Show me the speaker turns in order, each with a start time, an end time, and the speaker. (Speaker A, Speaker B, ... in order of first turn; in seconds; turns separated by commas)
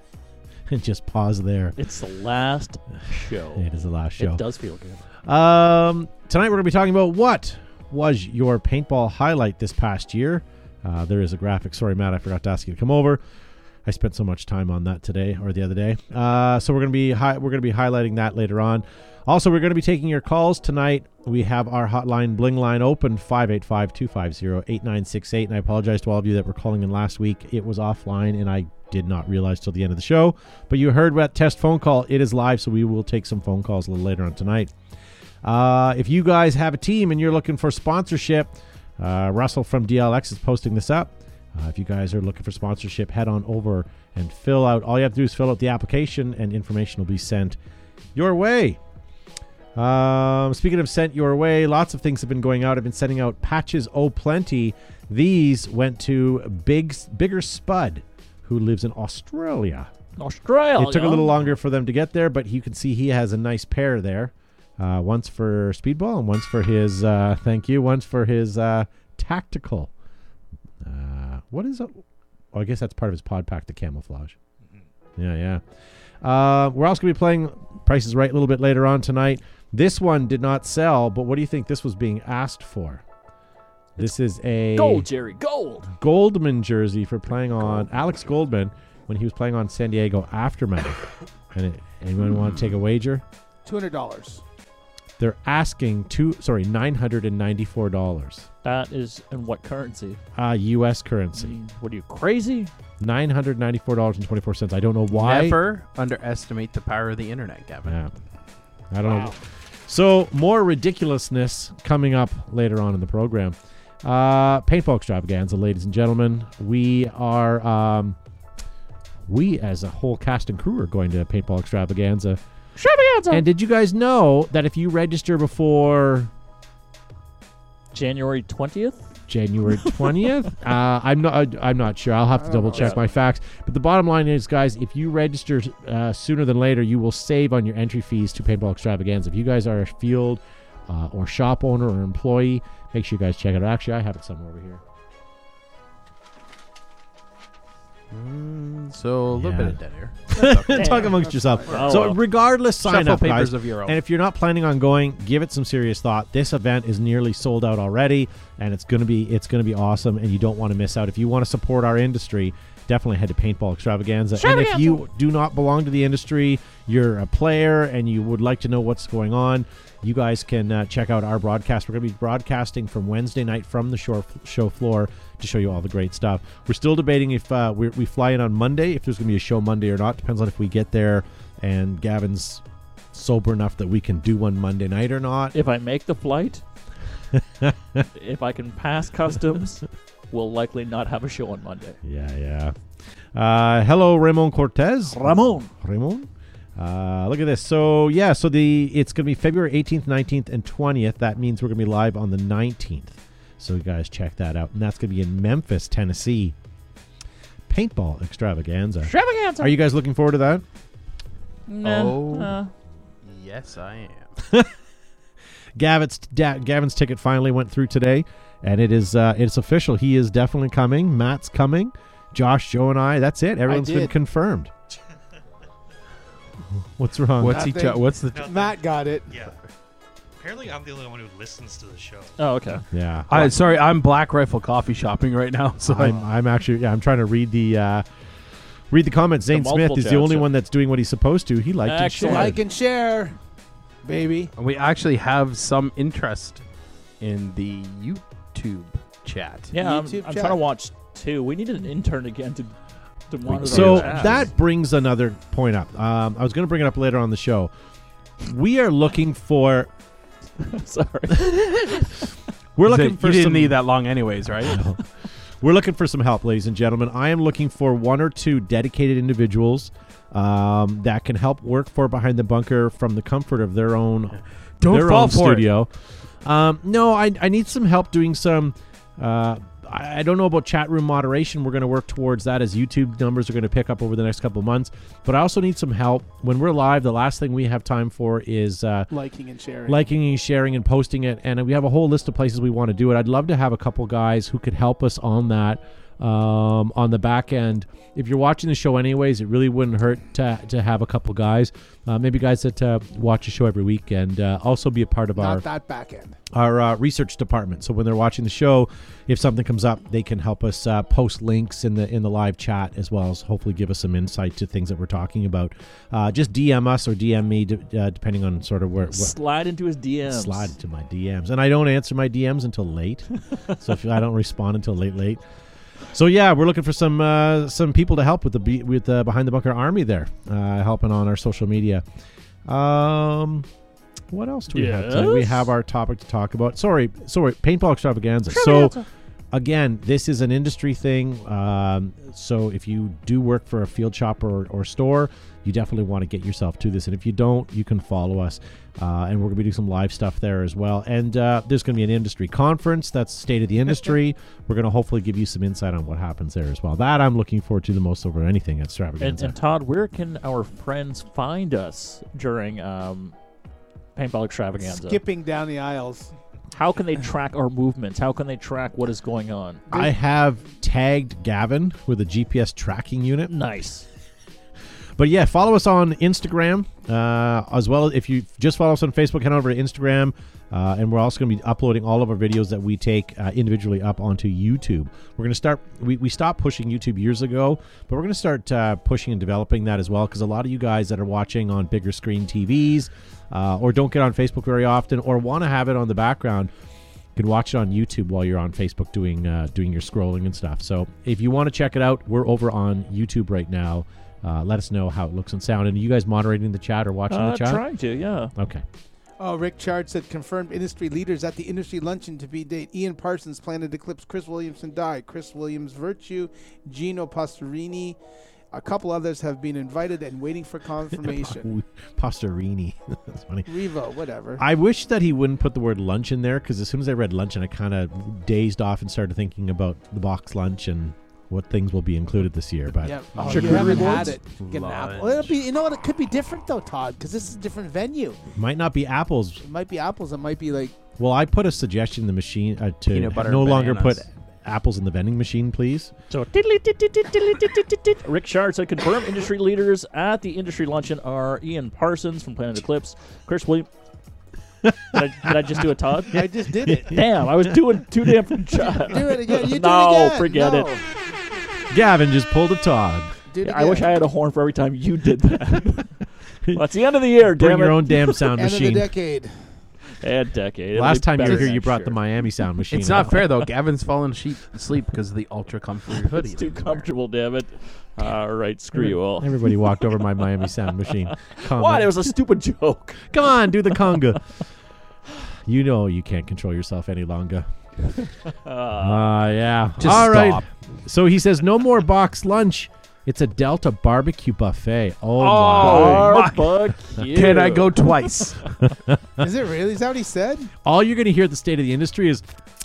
Speaker A: 0.7-1.8, Speaker B: 1.8-5.0, Speaker A: 3.5-4.4, Speaker A: 5.2-13.2, Speaker A: 13.8-34.7, Speaker A: 35.4-47.6, Speaker A: 48.1-48.8, Speaker A: 49.7-59.9, Speaker B: 60.2-61.5, Speaker A: 60.7-69.9, Speaker A: 70.8-74.3, Speaker A: 75.2-75.6, Speaker A: 76.2-83.0, Speaker A: 84.0-85.1, Speaker B: 84.7-85.9, Speaker A: 85.9-93.2, Speaker C: 92.2-92.8, Speaker D: 93.6-94.4, Speaker A: 95.2-98.5, Speaker B: 98.6-100.2, Speaker A: 100.3-101.5, Speaker B: 101.3-102.7, Speaker A: 103.0-105.6, Speaker C: 105.1-108.0, Speaker A: 107.9-108.1, Speaker A: 108.9-118.2, Speaker A: 119.3-122.4, Speaker B: 122.8-123.4, Speaker A: 123.3-126.3, Speaker B: 127.9-129.1, Speaker A: 129.3-144.8, Speaker D: 132.3-133.1, Speaker B: 132.7-133.0, Speaker C: 148.1-151.0, Speaker A: 149.3-185.5, Speaker D: 150.4-151.9, Speaker B: 150.7-151.1, Speaker B: 151.7-152.2, Speaker C: 151.7-152.0, Speaker C: 152.8-154.0, Speaker B: 164.4-165.0, Speaker B: 185.5-186.6, Speaker A: 187.3-188.0, Speaker B: 188.1-192.0, Speaker A: 192.0-192.7, Speaker A: 193.3-206.5, Speaker B: 195.1-195.7, Speaker A: 207.7-210.6, Speaker B: 209.1-209.7, Speaker B: 211.7-212.7, Speaker C: 211.8-212.6, Speaker C: 213.2-214.3, Speaker A: 214.4-214.7, Speaker A: 215.8-224.7, Speaker D: 223.7-224.1, Speaker A: 226.7-227.7, Speaker C: 227.4-228.5, Speaker D: 227.4-229.3, Speaker E: 228.3-229.6, Speaker E: 230.4-232.4, Speaker B: 232.4-232.8, Speaker A: 232.9-233.5, Speaker C: 233.3-236.2, Speaker A: 235.8-238.0, Speaker A: 238.9-242.6, Speaker B: 239.5-240.5, Speaker B: 241.8-242.5, Speaker D: 242.2-243.3, Speaker D: 244.0-244.5, Speaker C: 244.6-246.6, Speaker C: 247.2-249.7, Speaker B: 249.7-252.7, Speaker D: 249.8-250.6, Speaker B: 253.3-254.4, Speaker A: 253.4-257.7, Speaker C: 253.5-254.5, Speaker A: 258.4-259.9, Speaker B: 260.6-262.3, Speaker A: 261.3-262.1, Speaker A: 262.8-263.8, Speaker C: 262.8-264.8, Speaker A: 264.6-265.0, Speaker A: 265.6-275.9, Speaker C: 274.8-275.7, Speaker A: 276.4-289.1, Speaker D: 289.1-290.1, Speaker A: 289.9-305.6, Speaker D: 305.4-306.4, Speaker A: 306.5-319.3, Speaker B: 319.1-320.7, Speaker A: 320.3-325.4, Speaker A: 326.1-332.0, Speaker A: 332.6-333.7, Speaker A: 334.3-339.0, Speaker B: 334.7-335.7, Speaker B: 338.5-339.1, Speaker A: 339.5-359.6, Speaker B: 359.2-363.3, Speaker B: 364.1-365.2, Speaker D: 364.8-366.3, Speaker B: 366.7-369.8, Speaker A: 369.9-373.5, Speaker B: 373.5-374.1, Speaker A: 375.2-396.7, Speaker A: 397.4-407.8, Speaker B: 407.3-408.5, Speaker A: 408.6-408.8, Speaker D: 409.4-418.2, Speaker D: 418.7-421.7, Speaker A: 421.2-423.7, Speaker D: 423.7-424.6, Speaker A: 424.6-434.4, Speaker D: 433.0-438.4, Speaker B: 433.4-434.4, Speaker C: 433.5-434.0, Speaker C: 434.6-435.6, Speaker A: 438.5-439.6, Speaker D: 439.6-441.0, Speaker A: 441.2-446.1, Speaker C: 443.1-444.2, Speaker B: 446.3-453.9, Speaker A: 454.8-455.5, Speaker B: 455.1-456.4, Speaker D: 456.3-457.1, Speaker A: 456.8-457.8, Speaker B: 457.0-460.9, Speaker D: 458.9-461.1, Speaker A: 461.9-463.3, Speaker D: 463.5-464.1, Speaker B: 463.6-466.1, Speaker B: 466.7-468.5, Speaker A: 467.4-469.1, Speaker D: 468.5-469.5, Speaker B: 470.2-472.2, Speaker A: 470.9-473.5, Speaker C: 472.9-477.1, Speaker B: 476.2-479.8, Speaker A: 478.9-482.3, Speaker B: 481.0-484.1, Speaker A: 483.3-484.4, Speaker A: 485.6-487.7, Speaker B: 488.4-489.4, Speaker A: 489.0-496.4, Speaker C: 490.0-490.6, Speaker C: 495.4-498.6, Speaker B: 495.8-498.3, Speaker A: 498.8-499.2, Speaker D: 499.4-500.7, Speaker A: 500.8-502.4